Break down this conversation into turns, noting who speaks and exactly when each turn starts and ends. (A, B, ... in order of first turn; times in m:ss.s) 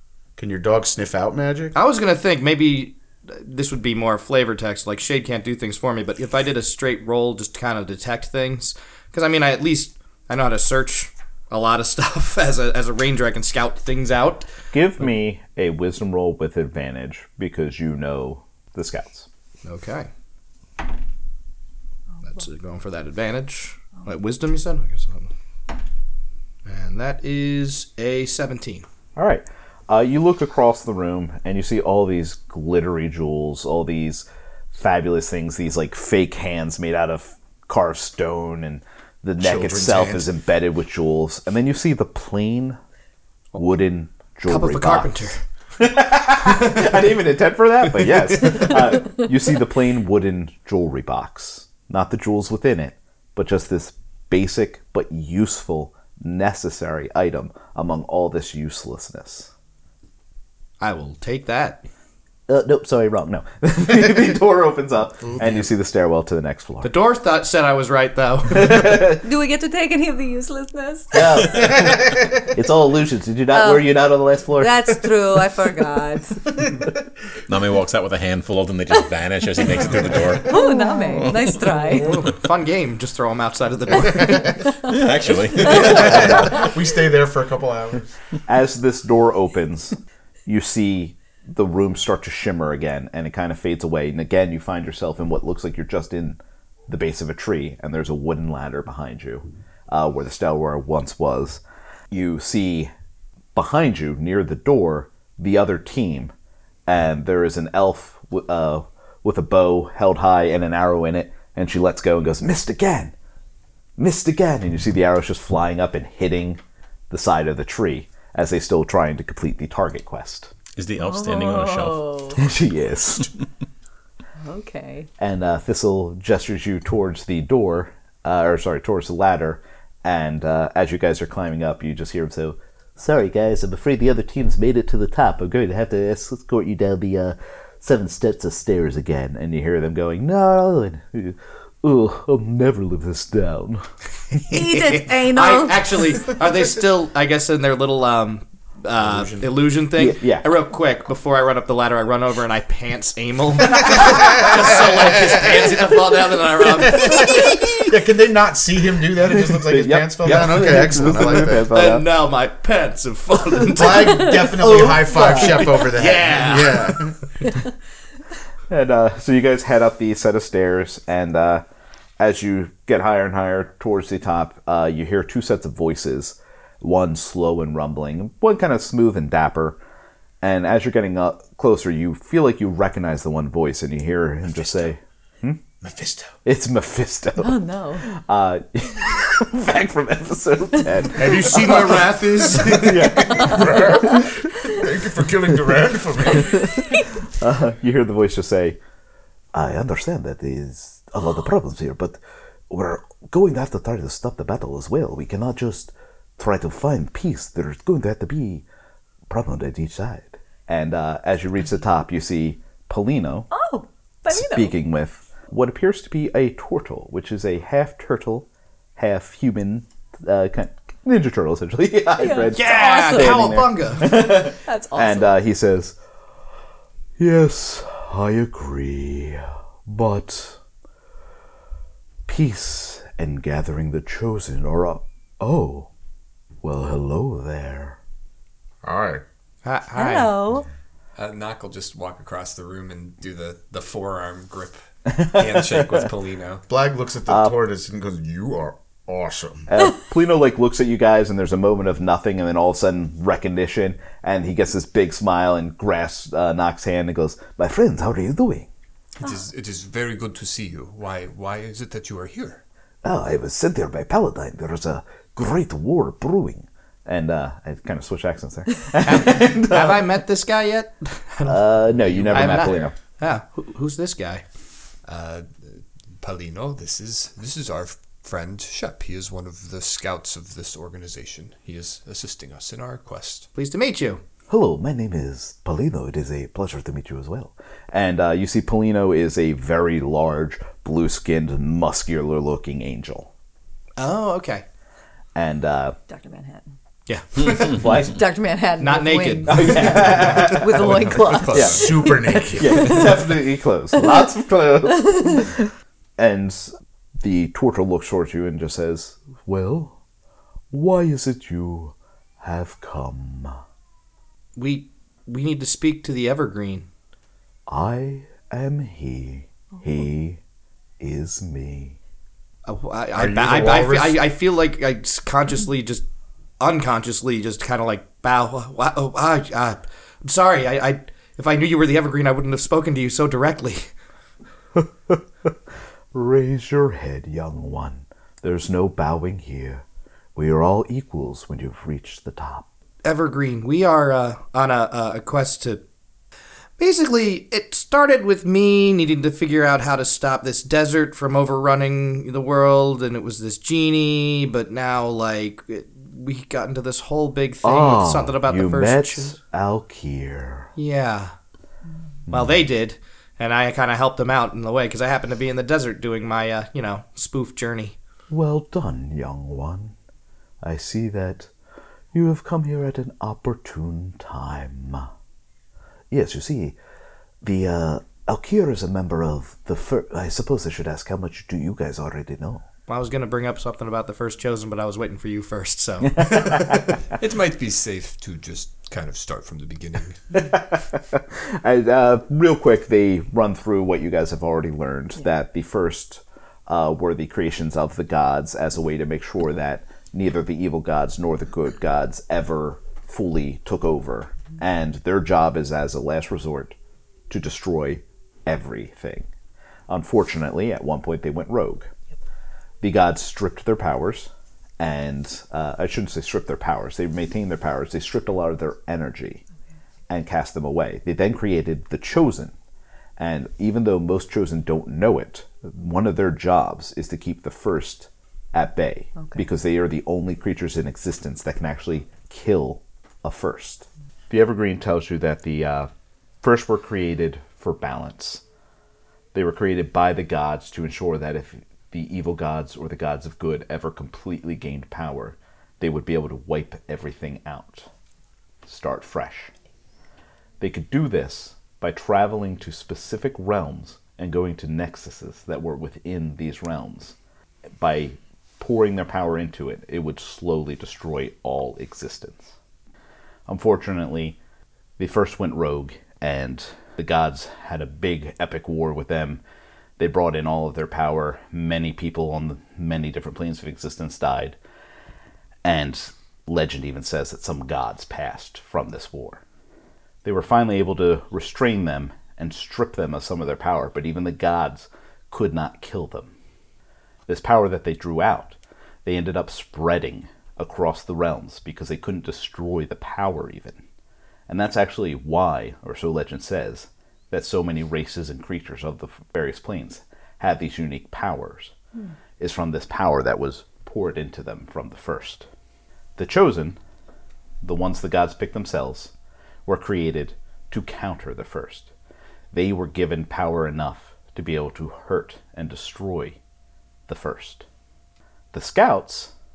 0:00.4-0:01.8 A
0:01.7-0:14.5 B
0:14.7-0:19.3 C
0:19.6-0:20.1 B
0:22.2-0:25.3 B
0:26.6-0:28.8 B
0:29.2-0:42.8 C
0:39.4-0:40.3 A
0:43.5-0:45.2 C
0:44.4-0:45.4 B
0:45.8-0:59.5 C
1:00.8-1:01.8 B
1:02.5-1:06.9 C
1:05.2-1:05.7 A
1:06.8-1:08.9 B
1:08.5-1:09.2 C
1:09.2-1:11.7 D
1:11.1-1:15.1 C
1:11.5-1:12.2 A
1:13.5-1:16.4 D
1:17.5-1:21.6 E
1:19.6-1:22.3 D
1:21.8-1:24.6 B
1:24.8-1:26.6 E
1:25.6-1:28.1 A
1:28.4-1:42.9 C
1:43.5-1:46.3 C
1:46.9-1:53.1 C
1:54.0-2:00.5 C
2:00.8-2:02.2 E
2:01.0-2:02.5 D
2:02.4-2:03.3 C
2:04.4-2:05.1 D
2:05.2-2:23.8 C
2:24.5-2:26.0 D
2:24.5-2:37.5 B
2:29.0-2:29.5 A
2:29.9-2:30.5 C
2:33.8-2:36.2 A
2:36.7-2:41.7 A
2:37.1-2:37.9 C
2:39.2-2:42.1 C
2:40.2-2:47.1 B
2:43.7-2:47.2 A
2:44.5-2:45.8 C
2:48.7-2:51.6 C
2:52.2-2:59.8 C
3:00.4-3:05.6 C
3:05.8-3:06.3 A
3:06.4-3:14.4 C
3:07.4-3:08.0 D
3:11.1-3:16.8 A
3:16.4-3:18.8 C
3:19.5-3:28.6 C
3:29.3-3:33.5 C
3:33.5-3:34.7 D
3:34.3-3:46.0 C
3:42.2-3:45.4 D
3:42.5-3:44.1 B
3:47.2-3:50.6 C
3:52.2-3:55.9 C
3:56.6-3:58.0 C
3:58.8-3:59.2 A
3:59.6-4:00.3 B
3:59.9-4:00.7 D
4:01.1-4:06.6 F
4:05.1-4:06.1 C
4:06.7-4:09.7 A
4:07.3-4:07.6 C
4:09.7-4:18.7 C
4:19.2-4:22.6 F
4:23.0-4:30.0 C
4:29.0-4:34.4 B
4:31.4-4:32.9 C
4:32.1-4:32.8 F
4:35.0-4:43.5 F
4:43.5-4:44.2 B
4:44.5-4:53.3 C
4:54.0-4:54.6 B
4:55.3-4:56.0 C
4:56.1-4:56.7 D
4:57.1-4:57.9 B
4:57.7-4:58.2 C
4:57.8-5:03.2 D
4:58.8-5:00.5 B
4:59.5-5:10.0 C
5:00.5-5:02.2 F
5:01.5-5:02.9 A
5:04.9-5:05.4 D
5:10.7-5:13.6 C
5:14.6-5:16.9 B
5:17.7-5:20.4 C
5:21.0-5:22.0 C
5:22.6-5:26.0 B
5:23.2-5:24.2 A
5:26.6-5:33.9 B
5:34.8-5:35.5 C
5:36.1-5:39.8 C
5:40.3-5:42.6 C
5:43.0-5:45.8 B
5:46.8-5:59.4 B
5:57.6-6:00.7 C
6:00.8-6:01.3 B
6:02.3-6:02.6 C
6:02.3-6:08.0 B
6:08.3-6:09.9 C
6:10.6-6:11.5 C
6:12.1-6:15.1 C
6:16.1-6:16.8 C
6:17.4-6:22.6 C
6:22.9-6:26.8 B
6:26.2-6:26.5 C
6:27.1-6:30.2 F
6:30.3-6:46.7 C
6:47.3-6:49.3 C
6:49.9-6:51.9 C
6:52.8-6:59.4 C
7:00.1-7:02.5 C
7:03.2-7:15.9 C
7:16.4-7:18.4 C
7:19.3-7:27.9 C
7:28.6-7:29.5 C
7:30.6-7:37.2 C
7:37.8-7:42.6 C
7:43.5-7:44.4 C
7:45.0-7:49.4 C
7:50.0-7:54.6 C
7:55.6-7:59.4 C
8:00.2-8:06.3 C
8:07.3-8:13.8 C
8:14.5-8:21.7 C
8:22.4-8:25.5 C
8:26.2-8:26.8 C
8:27.6-8:29.1 C
8:29.6-8:31.9 C
8:32.5-8:36.4 C
8:37.1-8:37.6 C
8:38.5-8:39.3 C